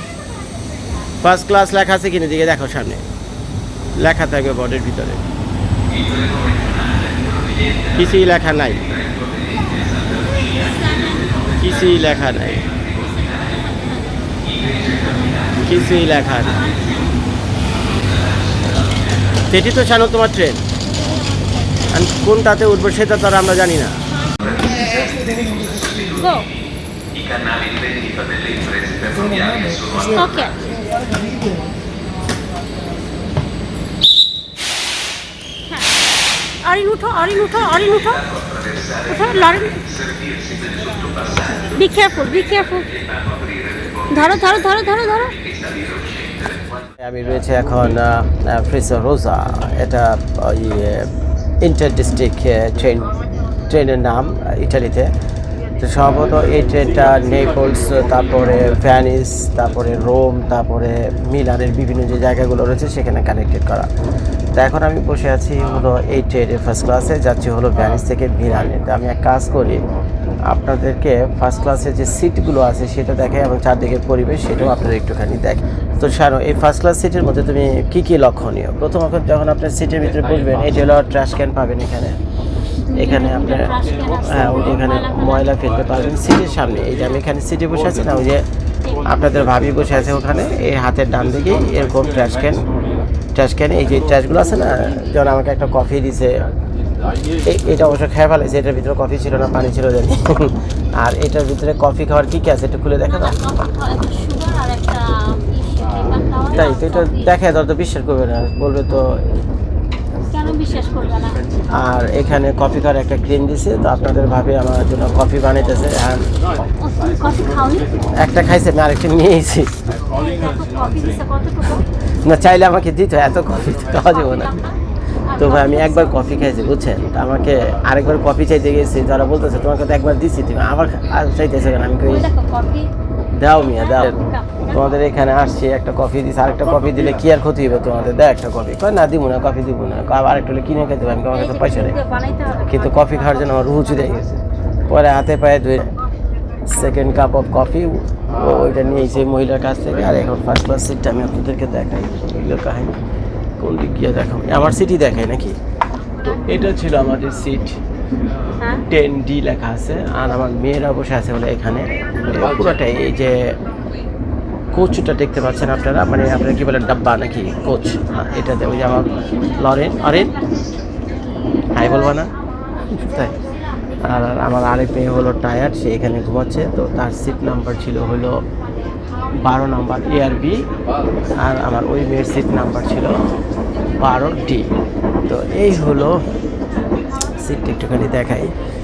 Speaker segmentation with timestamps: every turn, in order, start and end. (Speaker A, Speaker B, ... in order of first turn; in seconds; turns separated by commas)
Speaker A: 1.2-3.0, Speaker A: 4.0-5.3, Speaker A: 7.9-8.9, Speaker B: 10.3-11.4, Speaker A: 11.5-12.8, Speaker B: 13.0-15.5, Speaker A: 15.6-16.7, Speaker A: 19.4-20.6, Speaker A: 21.9-24.0, Speaker B: 24.4-24.9, Speaker C: 25.8-26.1, Speaker B: 26.0-26.5, Speaker C: 27.3-30.0, Speaker B: 29.9-30.6, Speaker B: 35.7-35.9, Speaker B: 36.6-38.3, Speaker B: 39.0-40.0, Speaker C: 40.1-40.5, Speaker B: 40.7-43.0, Speaker C: 43.4-43.8, Speaker B: 44.0-45.5, Speaker C: 45.6-46.3, Speaker A: 47.0-51.1, Speaker A: 51.6-55.1, Speaker A: 55.8-63.9, Speaker A: 64.5-69.8, Speaker A: 70.5-82.2, Speaker B: 82.9-84.4, Speaker A: 82.9-92.7, Speaker A: 93.3-96.4, Speaker A: 97.4-103.4, Speaker B: 103.4-107.2, Speaker A: 106.4-109.2, Speaker B: 110.2-111.4, Speaker A: 111.7-116.3, Speaker B: 116.8-117.9, Speaker A: 118.1-119.8, Speaker B: 120.1-121.9, Speaker A: 121.7-124.7, Speaker A: 125.3-132.3, Speaker B: 125.4-126.0, Speaker B: 132.3-132.9, Speaker A: 133.3-145.9, Speaker B: 134.1-134.7, Speaker B: 141.5-142.7, Speaker A: 146.7-153.0, Speaker A: 153.6-155.6, Speaker A: 156.2-157.8, Speaker B: 158.6-158.8, Speaker A: 158.8-163.6, Speaker A: 164.7-170.4, Speaker A: 171.7-173.4, Speaker A: 174.0-178.4, Speaker A: 179.4-180.7, Speaker A: 181.4-183.2, Speaker A: 184.0-184.7, Speaker A: 185.2-186.2, Speaker A: 187.4-188.5